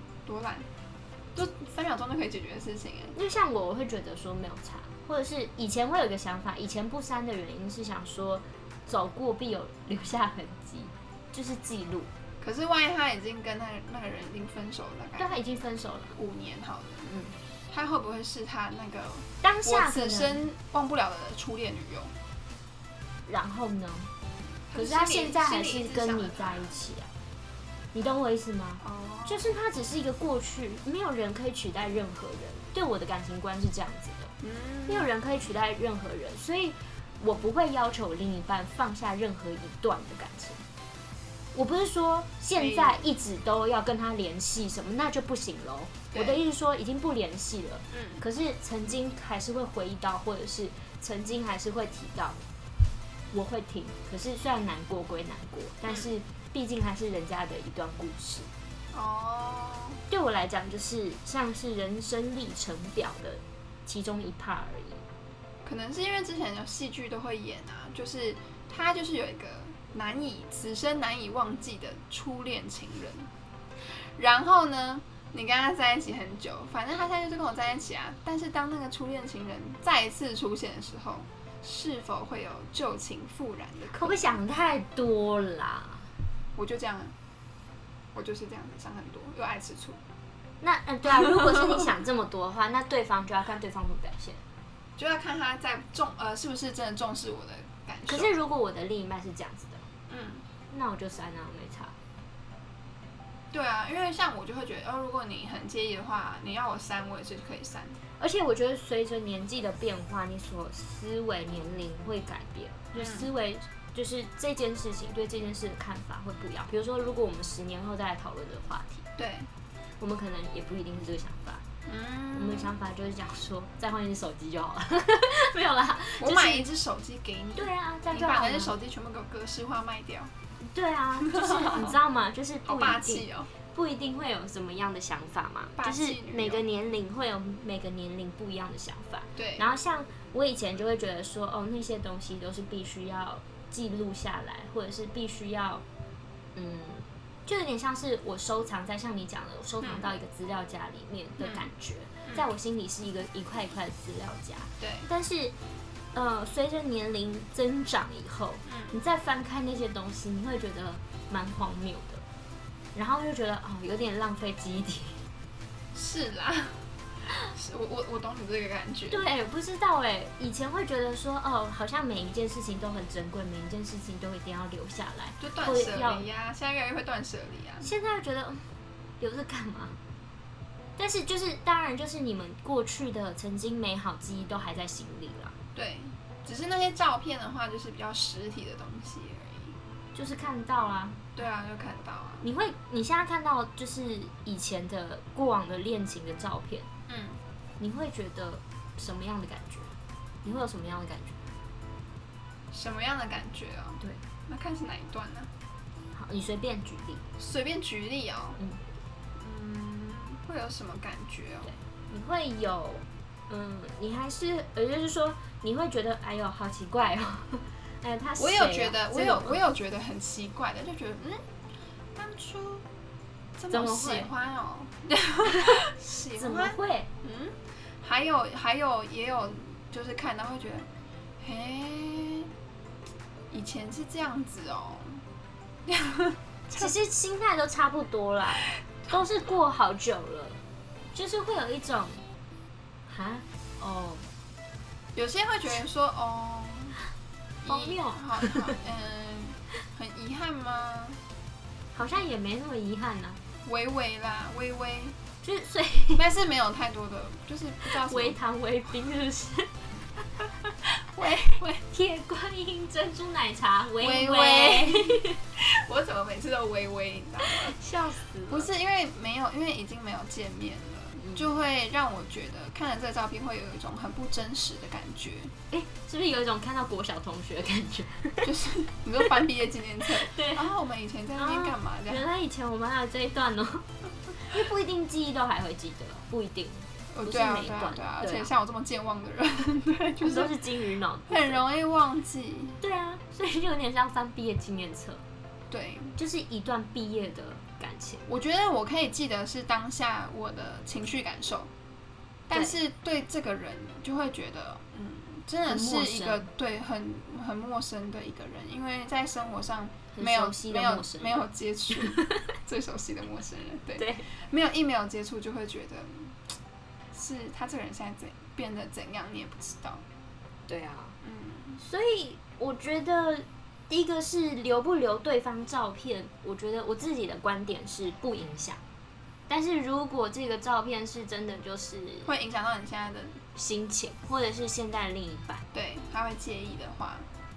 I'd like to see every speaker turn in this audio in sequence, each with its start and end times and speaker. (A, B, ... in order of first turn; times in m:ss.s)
0:00.2-0:00.7 A
0:01.4-0:03.1 A
0:03.1-0:12.1 B
0:12.4-0:15.4 A
0:15.2-0:16.2 B
0:16.1-0:17.1 A
0:17.1-0:17.4 B
0:17.7-0:22.1 A
0:19.4-0:20.5 B
0:23.2-0:24.1 B
0:24.7-0:26.8 A
0:24.8-0:27.1 B
0:27.9-0:34.3 B
0:28.8-0:29.5 A
0:34.4-0:35.1 A
0:34.9-0:40.6 B
0:41.5-0:52.4 B
0:42.6-0:43.0 A
0:46.1-0:46.4 A
0:47.9-0:48.2 A
0:53.3-0:58.5 B
0:55.9-0:56.1 A
0:58.9-1:00.0 A
1:00.1-1:05.0 B
1:05.6-1:13.3 A
1:13.9-1:24.4 A
1:23.9-1:26.1 B
1:26.6-1:27.1 A
1:28.1-1:30.0 A
1:30.6-1:34.4 B
1:35.0-1:38.4 A
1:38.1-1:39.9 B
1:40.1-1:40.4 A
1:40.7-1:41.9 B
1:43.5-1:48.0 A
1:48.2-1:59.0 B
1:53.0-1:53.3 A
1:59.2-1:59.5 A
2:00.0-2:01.6 B
2:01.9-2:02.7 A
2:02.3-2:06.7 B
2:06.2-2:10.3 A
2:07.6-2:08.8 B
2:10.6-2:25.8 B
2:11.2-2:12.0 A
2:12.6-2:13.5 A
2:15.8-2:16.6 A
2:19.4-2:19.6 A
2:26.6-2:35.6 B
2:29.8-2:30.1 A
2:31.4-2:31.7 A
2:34.8-2:35.1 A
2:36.1-2:42.2 B
2:38.6-2:39.0 A
2:42.9-2:45.2 B
2:45.9-2:46.9 A
2:47.4-2:49.3 A
2:49.1-2:56.3 B
2:55.4-2:57.9 A
2:57.8-2:58.7 B
2:59.2-3:00.0 B
3:01.0-3:05.5 B
3:05.8-3:09.8 A
3:10.1-3:11.2 B
3:11.4-3:12.5 A
3:12.4-3:16.9 B
3:17.1-3:17.4 A
3:17.8-3:21.4 B
3:22.7-3:25.5 A
3:26.1-3:27.3 B
3:27.4-3:28.6 A
3:29.4-3:31.7 A
3:31.6-3:39.6 B
3:38.4-3:41.4 A
3:42.2-3:42.8 A
3:43.6-3:50.9 A
3:43.7-3:44.3 B
3:45.5-3:45.8 B
3:46.4-3:47.1 B
3:51.4-3:52.5 A
3:53.5-3:55.2 A
3:55.9-3:56.8 A
3:56.7-4:00.6 B
3:58.6-3:59.2 A
4:01.1-4:02.2 B
4:03.1-4:04.2 B
4:05.1-4:07.0 A
4:07.6-4:11.2 A
4:07.6-4:08.7 B
4:11.9-4:13.4 B
4:13.6-4:15.2 A
4:15.4-4:16.2 B
4:16.2-4:18.4 A
4:17.9-4:19.9 B
4:21.1-4:21.8 A
4:21.8-4:25.4 B
4:24.0-4:27.8 A
4:27.5-4:28.7 B
4:28.5-4:35.5 A
4:31.2-4:31.5 B
4:35.7-4:38.5 B
4:38.4-4:42.2 A
4:40.3-4:40.7 B
4:41.4-4:48.5 B
4:47.1-4:50.6 A
4:50.2-4:51.6 B
4:51.3-4:52.8 A
4:52.8-4:55.2 B
4:55.7-4:56.2 A
4:56.2-4:58.3 B
4:58.3-5:01.7 A
5:02.5-5:16.5 A
5:05.7-5:06.5 B
5:10.1-5:12.5 B
5:14.0-5:14.3 B
5:17.1-5:20.0 A
5:20.7-5:21.2 B
5:21.2-5:21.8 A
5:21.8-5:28.8 B
5:29.5-5:32.3 B
5:32.2-5:33.4 A
5:33.6-5:35.6 B
5:35.7-5:37.2 A